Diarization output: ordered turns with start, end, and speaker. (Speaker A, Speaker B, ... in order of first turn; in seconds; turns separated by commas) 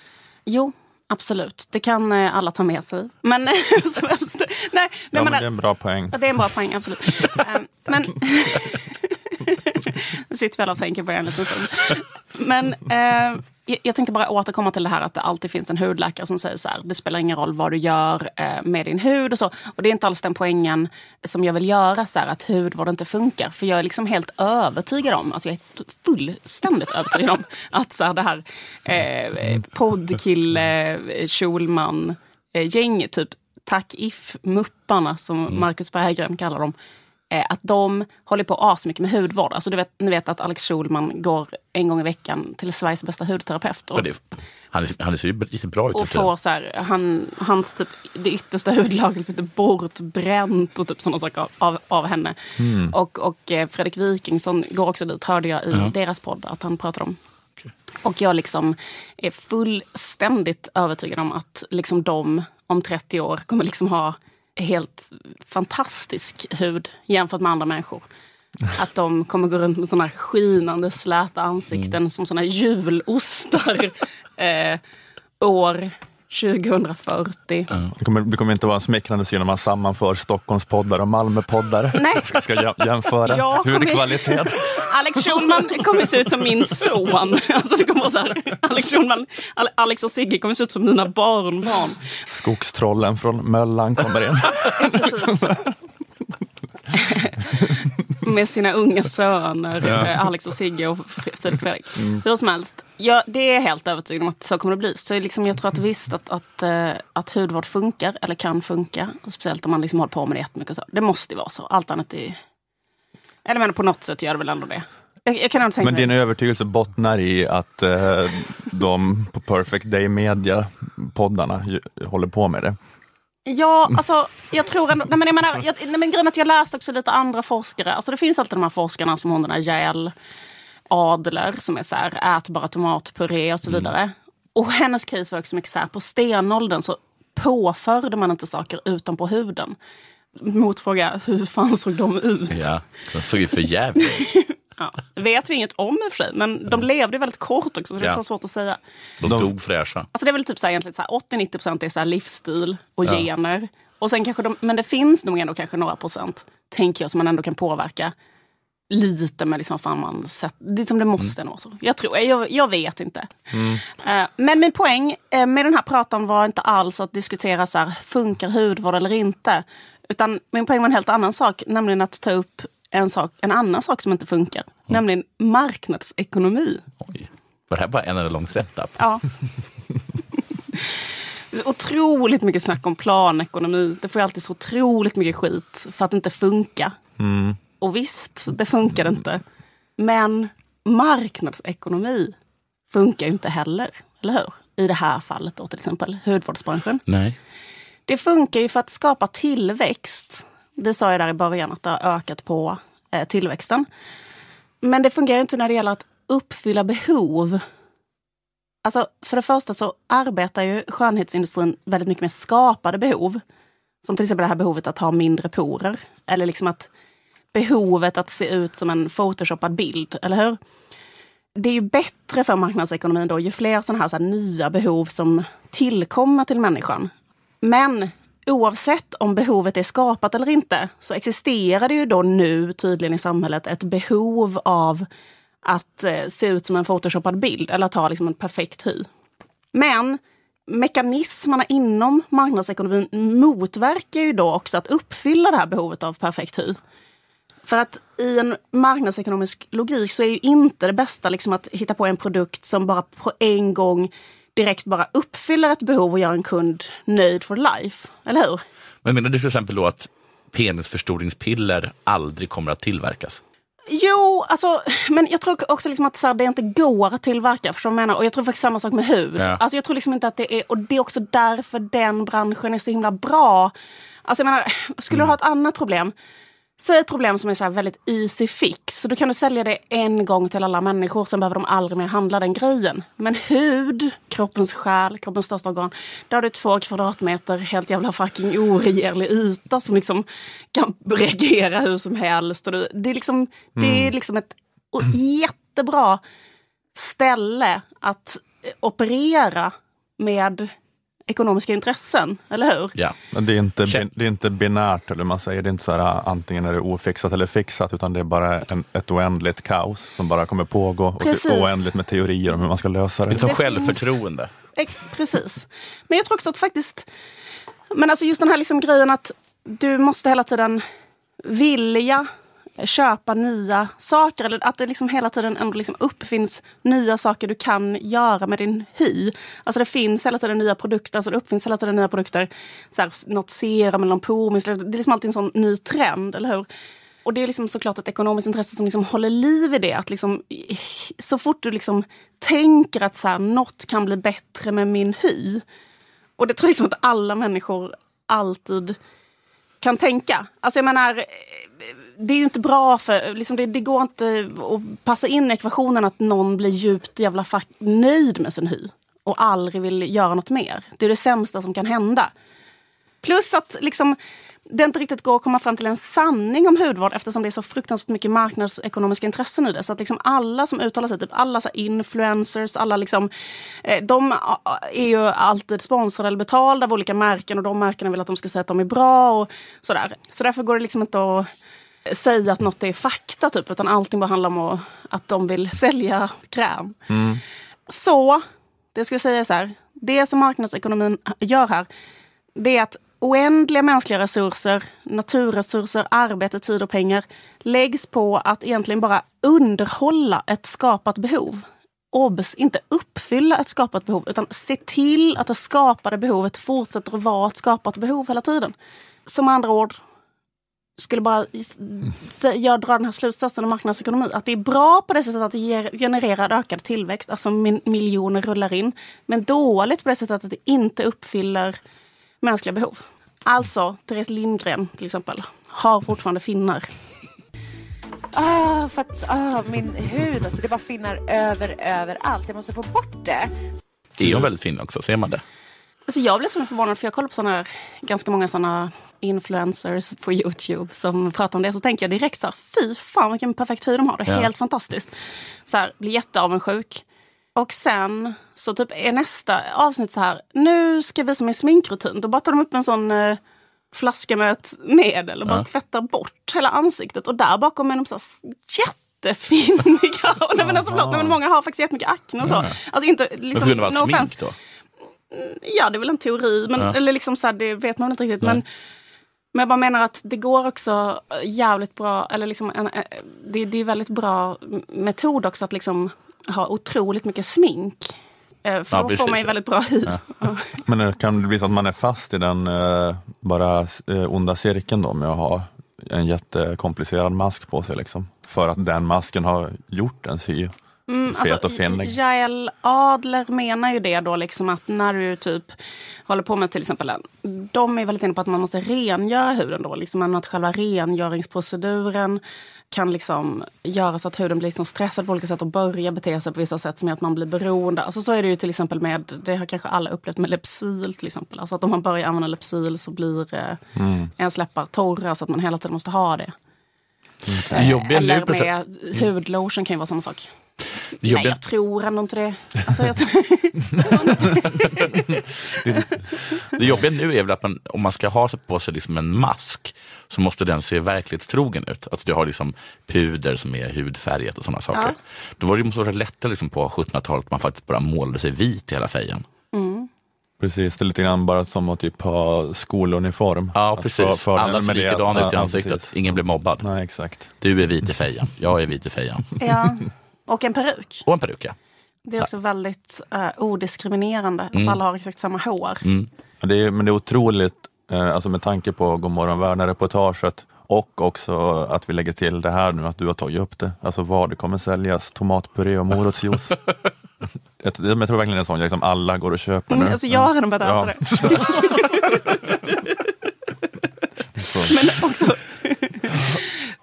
Speaker A: 0.5-5.5, Speaker B: 5.1-6.2, Speaker A: 6.1-36.7, Speaker A: 37.3-44.1, Speaker C: 43.9-44.2, Speaker C: 44.7-46.3, Speaker A: 45.9-52.4, Speaker B: 52.6-52.9, Speaker A: 52.9-57.2, Speaker A: 58.0-68.0, Speaker A: 68.7-74.8, Speaker A: 75.4-77.7, Speaker B: 78.0-85.2, Speaker A: 81.9-82.4, Speaker A: 83.2-92.0, Speaker B: 92.3-95.2, Speaker A: 94.8-95.6, Speaker A: 96.9-97.6, Speaker A: 98.2-112.4, Speaker A: 113.4-116.1, Speaker B: 115.8-122.8, Speaker A: 123.5-130.1, Speaker A: 130.9-139.8, Speaker A: 140.4-142.7, Speaker C: 142.5-144.2, Speaker A: 144.1-148.8, Speaker C: 149.2-150.1, Speaker B: 149.2-149.5, Speaker A: 150.1-158.1, Speaker A: 158.9-163.3, Speaker B: 163.5-163.8, Speaker A: 164.0-176.8, Speaker C: 177.0-179.0, Speaker A: 179.0-179.2, Speaker A: 181.5-186.9, Speaker B: 187.2-187.6, Speaker A: 187.8-189.4, Speaker A: 190.0-192.3, Speaker A: 192.9-197.0, Speaker C: 197.1-197.4, Speaker A: 198.1-203.8, Speaker A: 204.8-207.6, Speaker A: 208.8-213.4, Speaker A: 214.0-216.9, Speaker A: 217.5-220.6, Speaker A: 221.6-227.1, Speaker A: 227.6-235.1, Speaker A: 235.6-239.1, Speaker A: 239.7-246.8, Speaker A: 247.7-258.6, Speaker C: 259.0-263.4, Speaker A: 263.9-273.7, Speaker A: 274.2-276.1, Speaker A: 276.8-296.2, Speaker B: 293.8-294.1, Speaker A: 296.9-300.7, Speaker A: 301.3-302.9, Speaker B: 303.3-313.5, Speaker A: 311.2-311.8, Speaker C: 313.3-314.5, Speaker A: 313.4-314.1, Speaker A: 314.8-317.1, Speaker A: 317.9-320.8, Speaker A: 321.4-322.3, Speaker A: 322.8-336.7, Speaker A: 337.2-345.6, Speaker A: 346.4-349.0, Speaker A: 349.8-362.3, Speaker A: 363.2-364.2, Speaker A: 364.7-373.3, Speaker A: 373.8-381.5, Speaker A: 382.1-387.0, Speaker B: 387.1-387.4, Speaker A: 387.9-388.4, Speaker A: 388.9-391.9, Speaker A: 392.6-408.7, Speaker A: 409.2-410.0, Speaker A: 411.0-421.8, Speaker A: 422.4-426.9, Speaker D: 428.3-433.5, Speaker C: 434.2-435.4, Speaker A: 436.1-445.1, Speaker A: 445.7-447.0, Speaker A: 447.6-453.4, Speaker A: 453.9-464.3, Speaker B: 460.6-461.4, Speaker C: 462.4-462.7, Speaker C: 463.5-464.5, Speaker A: 465.3-468.6, Speaker A: 469.5-478.1, Speaker A: 478.6-480.7, Speaker C: 478.9-479.5, Speaker B: 480.9-490.7, Speaker A: 491.1-495.7, Speaker B: 491.3-492.1, Speaker A: 496.3-502.4, Speaker A: 502.9-513.8, Speaker B: 514.0-514.3, Speaker A: 514.4-516.5, Speaker B: 517.5-517.8, Speaker A: 517.7-520.5, Speaker C: 517.7-518.7, Speaker C: 521.2-521.6, Speaker A: 521.2-526.6, Speaker C: 526.7-539.4, Speaker A: 539.7-540.1, Speaker B: 540.6-546.2, Speaker C: 543.7-546.9, Speaker B: 546.8-547.5, Speaker C: 547.6-549.6, Speaker A: 549.6-551.2, Speaker C: 551.2-551.8, Speaker A: 552.2-556.0, Speaker C: 554.7-555.0, Speaker C: 556.0-556.3, Speaker B: 556.6-566.8, Speaker B: 567.8-571.9, Speaker A: 569.9-573.0, Speaker B: 574.5-575.1, Speaker A: 574.9-576.6